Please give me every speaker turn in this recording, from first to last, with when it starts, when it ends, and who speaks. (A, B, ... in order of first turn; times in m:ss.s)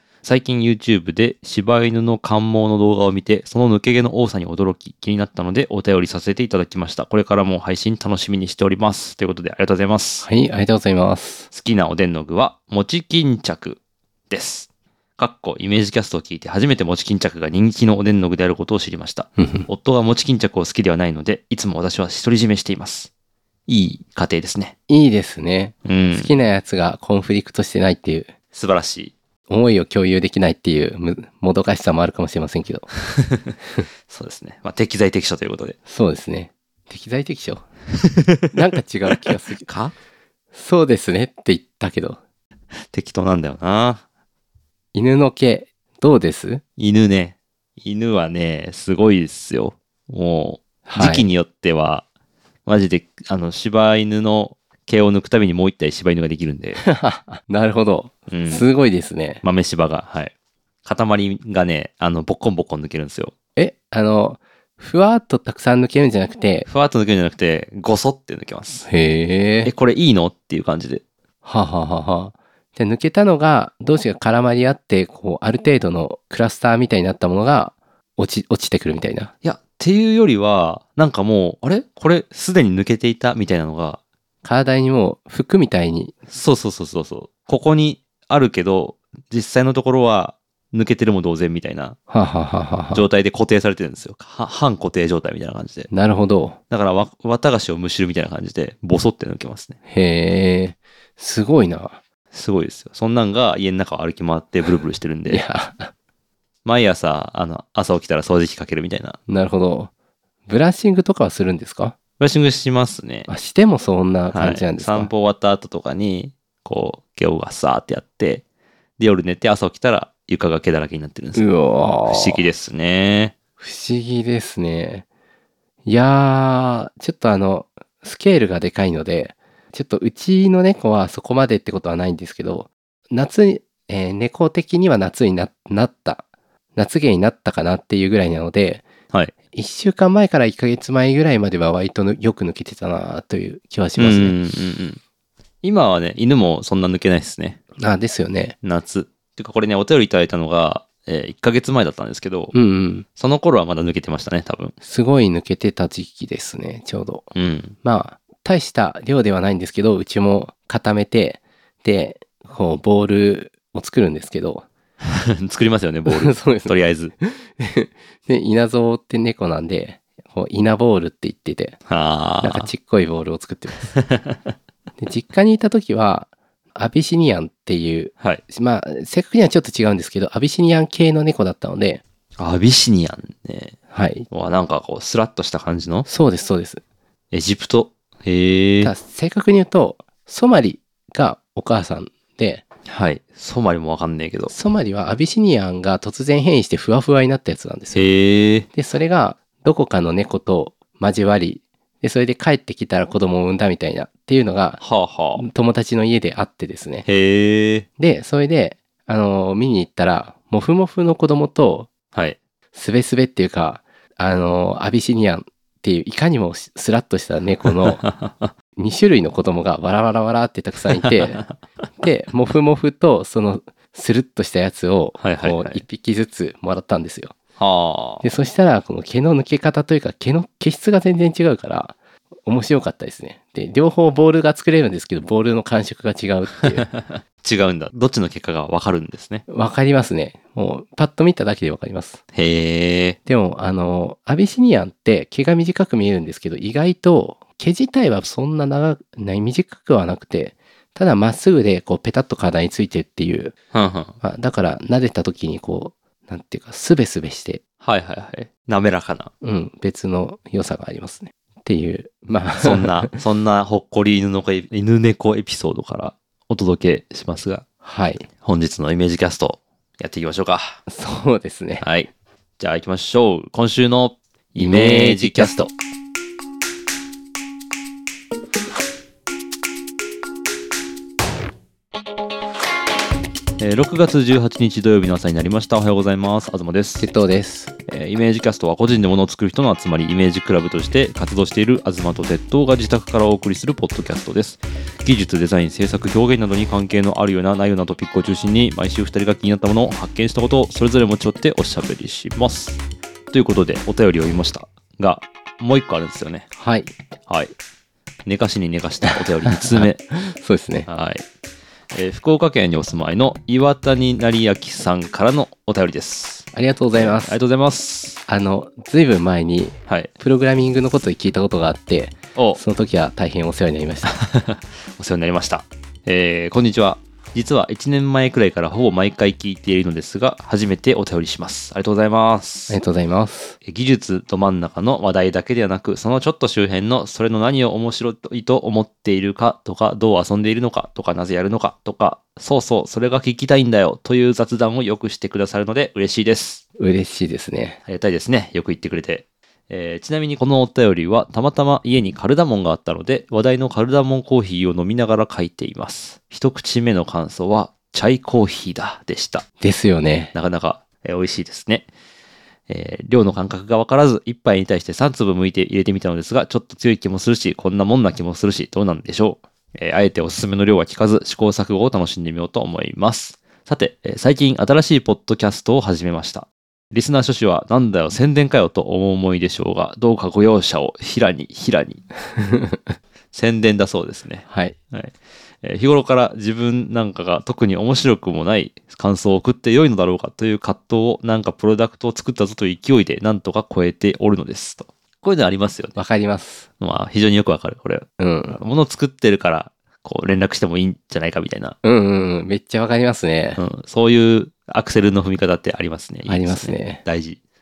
0:00.2-0:10.3 A
0:10.2-0:11.5 B
0:11.5-0:13.8 A
0:14.3-0:23.1 A
0:19.4-0:19.7 B
0:23.7-0:24.7 A
0:24.9-0:28.3 B
0:25.8-0:26.3 A
0:28.5-0:29.1 A
0:29.5-0:32.9 B
0:33.1-0:33.5 A
0:34.1-0:35.8 A
0:35.9-0:37.6 B
0:38.0-0:38.6 A
0:38.5-0:39.6 B
0:39.1-0:39.9 A
0:40.5-0:42.2 B
0:42.9-0:44.0 A
0:44.9-0:46.6 B
0:46.8-0:52.0 A
0:50.8-0:51.3 B
0:52.6-0:56.8 A
0:56.8-0:59.4 B
0:58.3-0:58.7 A
0:59.4-1:00.3 A
1:00.8-1:03.3 A
1:03.6-1:06.6 B
1:06.6-1:08.9 A
1:08.9-1:09.7 B
1:09.6-1:11.0 A
1:11.4-1:19.3 B
1:19.4-1:24.0 A
1:24.4-1:26.1 B
1:26.3-1:32.0 A
1:32.1-1:33.0 B
1:32.9-1:35.9 A
1:35.9-1:36.6 B
1:36.7-1:39.8 A
1:39.9-1:42.0 B
1:42.3-1:45.4 A
1:45.3-1:45.9 B
1:46.6-1:49.2 A
1:49.3-1:49.9 B
1:50.5-1:51.9 B
1:52.2-1:53.3 A
1:53.3-1:55.1 B
1:54.3-1:58.4 A
1:59.0-2:01.4 A
2:01.4-2:02.4 B
2:02.0-2:03.3 A
2:03.6-2:05.0 B
2:05.8-2:16.2 B
2:16.8-2:18.9 B
2:19.5-2:24.4 B
2:24.0-2:25.0 A
2:25.6-2:27.6 A
2:27.8-2:28.6 B
2:28.6-2:32.5 A
2:32.5-2:33.0 B
2:33.2-2:34.7 A
2:34.8-2:37.3 B
2:37.3-2:37.7 A
2:37.8-2:44.7 B
2:45.0-2:47.1 A
2:46.1-2:51.8 B
2:51.9-2:52.7 A
2:52.4-2:53.9 B
2:53.9-2:54.4 A
2:55.0-3:02.0 B
3:02.4-3:03.8 A
3:03.9-3:04.3 B
3:04.3-3:06.1 A
3:06.1-3:06.8 B
3:07.3-3:08.9 A
3:08.8-3:12.6 B
3:12.8-3:14.5 A
3:14.5-3:18.0 B
3:17.9-3:18.7 A
3:18.7-3:24.8 B
3:24.8-3:25.4 A
3:25.4-3:27.0 B
3:27.0-3:27.8 A
3:28.0-3:31.9 B
3:32.7-3:38.0 B
3:37.8-3:38.5 A
3:38.8-3:41.4 B
3:41.0-3:41.5 A
3:42.0-3:47.3 B
3:45.2-3:45.8 A
3:47.6-3:48.2 A
3:48.2-3:56.9 B
3:56.6-3:59.4 A
3:59.5-4:02.2 B
4:02.3-4:03.2 A
4:03.2-4:13.5 B
4:13.7-4:14.1 A
4:14.2-4:17.6 B
4:17.8-4:19.3 A
4:19.4-4:23.1 B
4:22.6-4:27.6 A
4:27.8-4:28.2 B
4:28.4-4:30.8 A
4:30.9-4:31.8 B
4:31.8-4:35.7 A
4:34.6-4:35.5 B
4:43.6-4:47.1 A
4:47.0-4:47.7 B
4:47.9-5:02.8 A
5:03.3-5:06.5 A
5:06.6-5:06.9 B
5:07.3-5:07.5 A
5:08.2-5:10.0 A
5:09.4-5:10.9 B
5:10.9-5:11.2 A
5:11.9-5:18.2 A
5:16.5-5:17.4 B
5:18.3-5:24.2 B
5:24.0-5:32.8 A
5:32.7-5:33.6 B
5:33.6-5:46.6 A
5:46.8-5:47.8 B
5:47.8-5:59.4 A
5:59.6-6:00.3 B
6:00.3-6:01.9 A
6:02.7-6:22.0 A
6:22.3-6:22.9 B
6:23.3-6:36.0 A
6:24.5-6:24.8 B
6:36.0-6:36.6 B
6:36.8-6:41.8 A
6:38.2-6:38.6 B
6:41.8-6:43.6 B
6:43.6-6:47.4 A
6:46.3-6:47.0 B